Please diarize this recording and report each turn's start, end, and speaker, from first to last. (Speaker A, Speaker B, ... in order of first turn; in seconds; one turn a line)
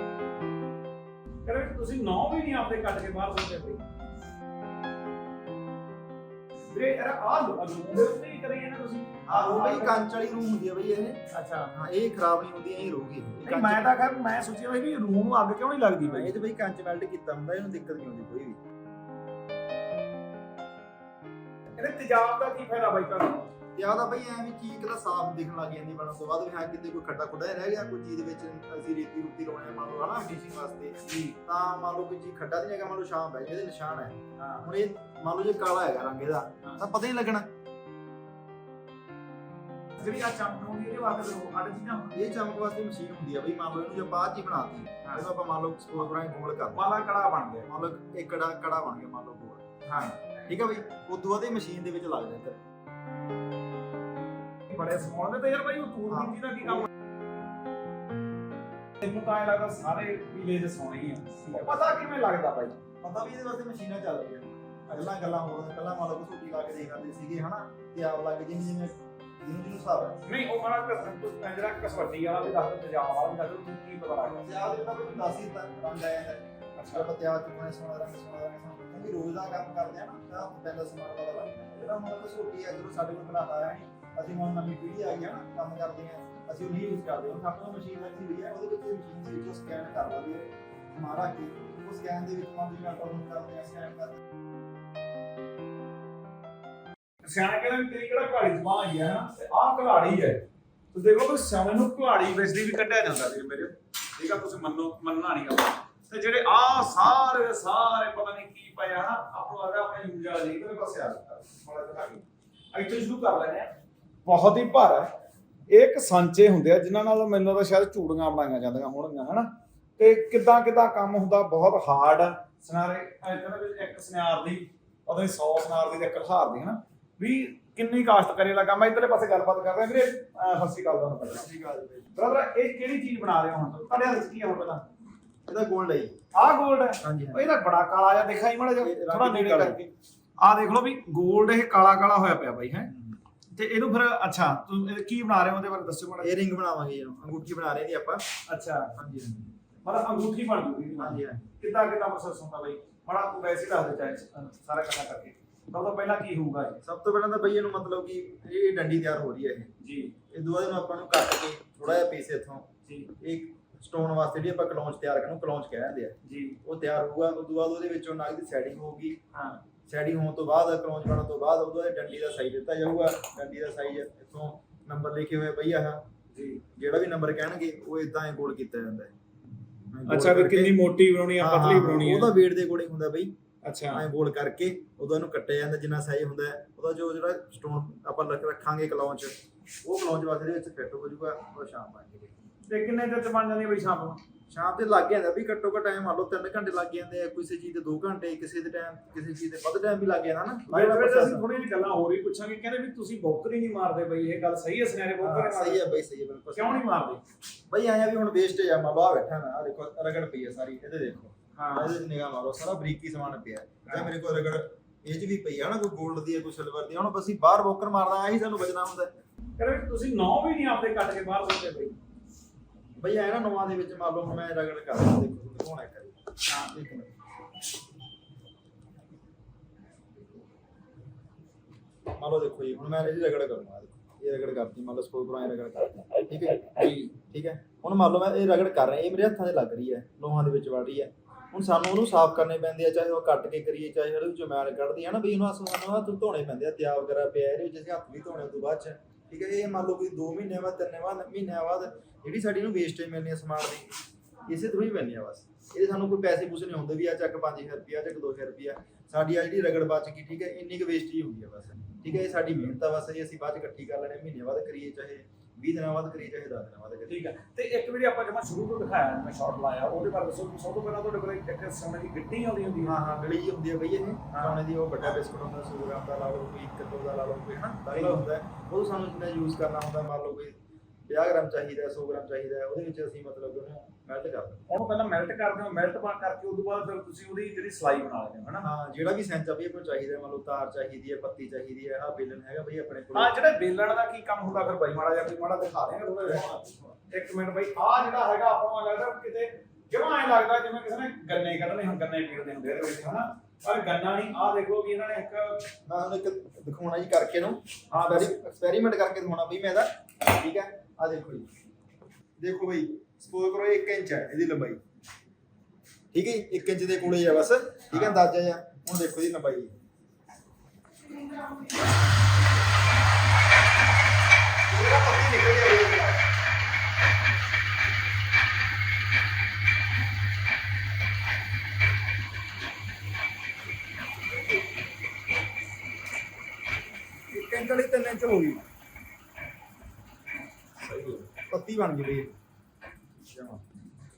Speaker A: 1.4-3.9
Speaker A: 6.7-10.0
Speaker B: 9.3-11.2
Speaker A: 11.3-11.7
Speaker B: 11.7-13.9
Speaker A: 13.4-16.3
Speaker B: 16.0-18.6
Speaker A: 21.8-23.5
Speaker B: 23.8-37.5
Speaker A: 31.1-31.4
Speaker A: 34.4-34.7
Speaker A: 40.0-42.2
Speaker B: 42.1-46.8
Speaker A: 46.7-47.7
Speaker B: 47.6-49.8
Speaker A: 49.8-50.3
Speaker B: 50.5-52.6
Speaker A: 54.7-56.9
Speaker B: 56.1-56.9
Speaker A: 59.0-62.8
Speaker B: 61.4-62.0
Speaker B: 63.0-70.2
Speaker A: 70.2-74.5
Speaker B: 74.3-94.2
Speaker A: 76.8-77.1
Speaker A: 97.2-100.4
Speaker A: 100.9-113.7
Speaker A: 114.2-115.1
Speaker A: 115.7-131.4
Speaker B: 131.2-132.2
Speaker A: 132.2-134.8
Speaker B: 135.5-136.2
Speaker A: 136.3-142.9
Speaker B: 137.0-137.5
Speaker B: 138.8-139.8
Speaker B: 142.9-143.2
Speaker A: 143.5-146.3
Speaker B: 146.2-148.2
Speaker A: 148.5-148.9
Speaker B: 148.9-149.5
Speaker A: 149.8-156.8
Speaker B: 151.0-151.5
Speaker B: 156.8-159.7
Speaker A: 159.8-160.1
Speaker B: 160.3-162.7
Speaker B: 163.2-169.2
Speaker A: 166.2-166.6
Speaker A: 169.3-169.6
Speaker B: 169.9-176.0
Speaker A: 176.3-176.6
Speaker B: 176.8-179.1
Speaker B: 179.9-180.7
Speaker A: 180.1-182.3
Speaker B: 181.4-183.3
Speaker A: 183.6-184.1
Speaker B: 183.9-192.3
Speaker A: 192.7-194.2
Speaker B: 194.5-201.4
Speaker A: 200.7-205.8
Speaker B: 205.2-207.1
Speaker A: 206.5-207.2
Speaker B: 207.7-219.1
Speaker A: 211.5-212.0
Speaker A: 213.9-214.1
Speaker A: 219.6-222.0
Speaker B: 223.0-226.2
Speaker B: 226.7-227.1
Speaker B: 232.2-253.9
Speaker A: 236.7-237.1
Speaker B: 254.5-267.2
Speaker A: 267.1-273.1
Speaker B: 272.8-280.6
Speaker A: 274.3-274.6
Speaker A: 277.9-278.2
Speaker B: 281.1-284.6
Speaker A: 284.7-288.7
Speaker B: 288.6-293.3
Speaker A: 293.1-305.7
Speaker B: 296.3-296.9
Speaker B: 305.9-311.5
Speaker A: 307.9-308.3
Speaker B: 312.4-314.8
Speaker B: 316.1-319.7
Speaker A: 317.9-318.2
Speaker B: 324.7-326.2
Speaker B: 337.3-338.6
Speaker A: 340.8-341.3
Speaker B: 341.5-342.3
Speaker B: 343.3-343.6